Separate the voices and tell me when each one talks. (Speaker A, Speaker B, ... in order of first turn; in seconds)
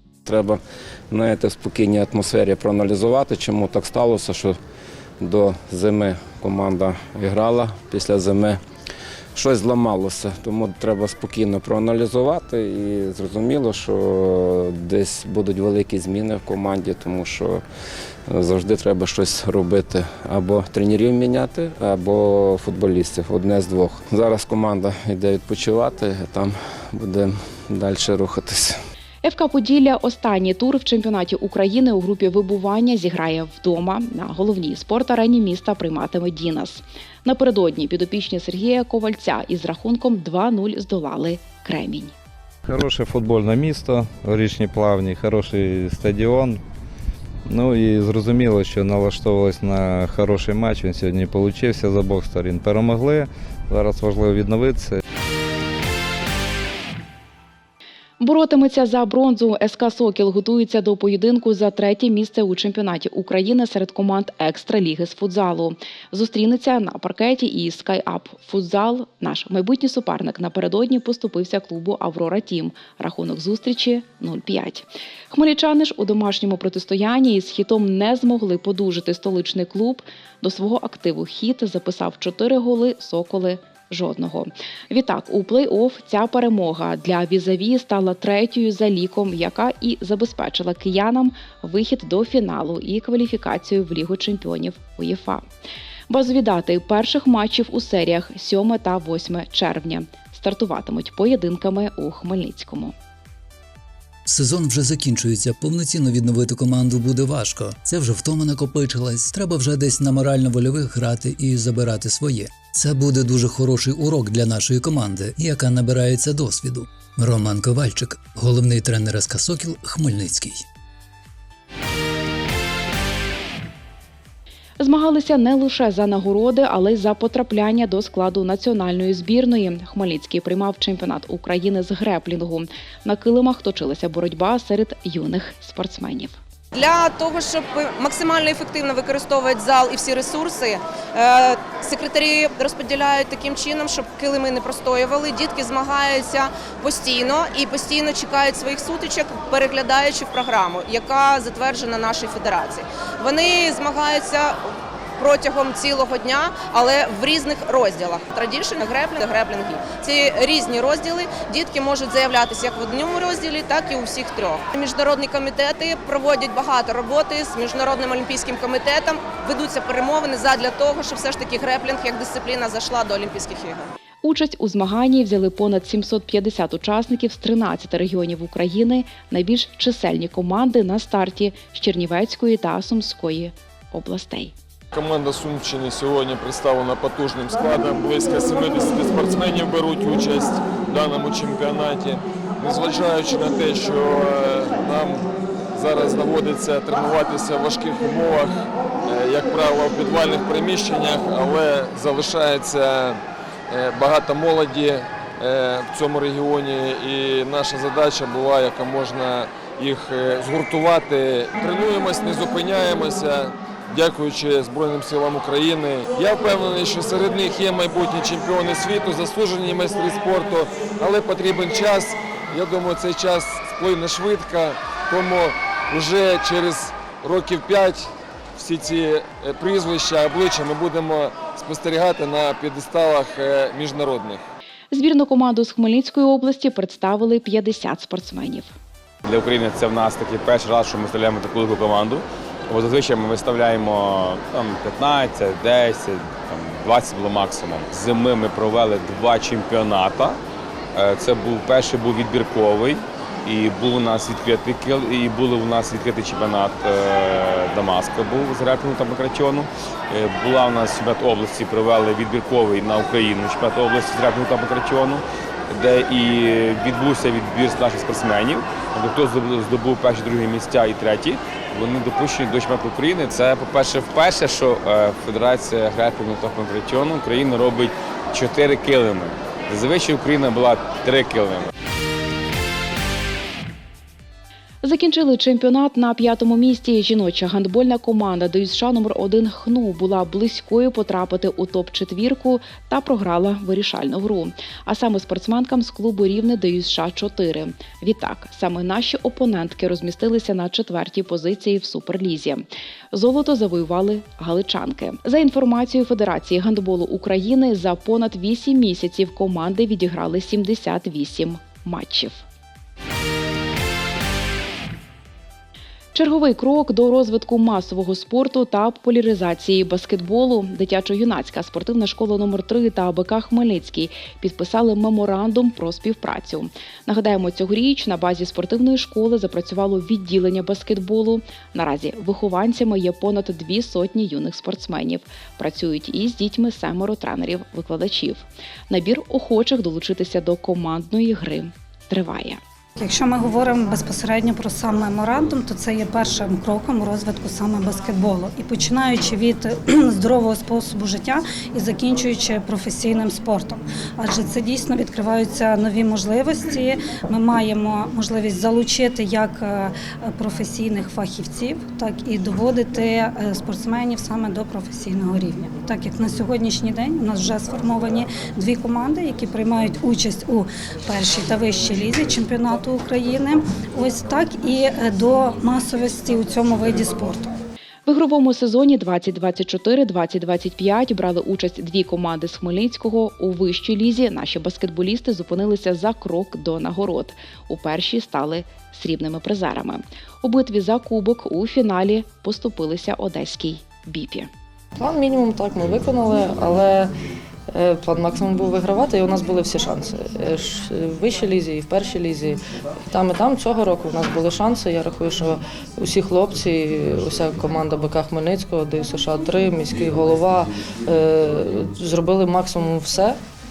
Speaker A: 0.2-4.6, 5.2-8.6, 9.3-17.6, 18.3-28.8
Speaker B: 29.2-42.1, 58.2-95.5, 96.1-102.9, 124.8-136.3, 174.2-184.5, 234.9-238.7, 284.8-312.4, 316.1-342.6, 378.1-394.5
Speaker C: 42.7-46.6, 47.5-55.0
Speaker D: 104.2-120.6
Speaker E: 136.7-173.9
Speaker F: 184.9-234.4
Speaker G: 239.2-250.4, 250.9-281.7
Speaker H: 343.0-377.6
Speaker I: 395.0-397.1, 397.7-413.4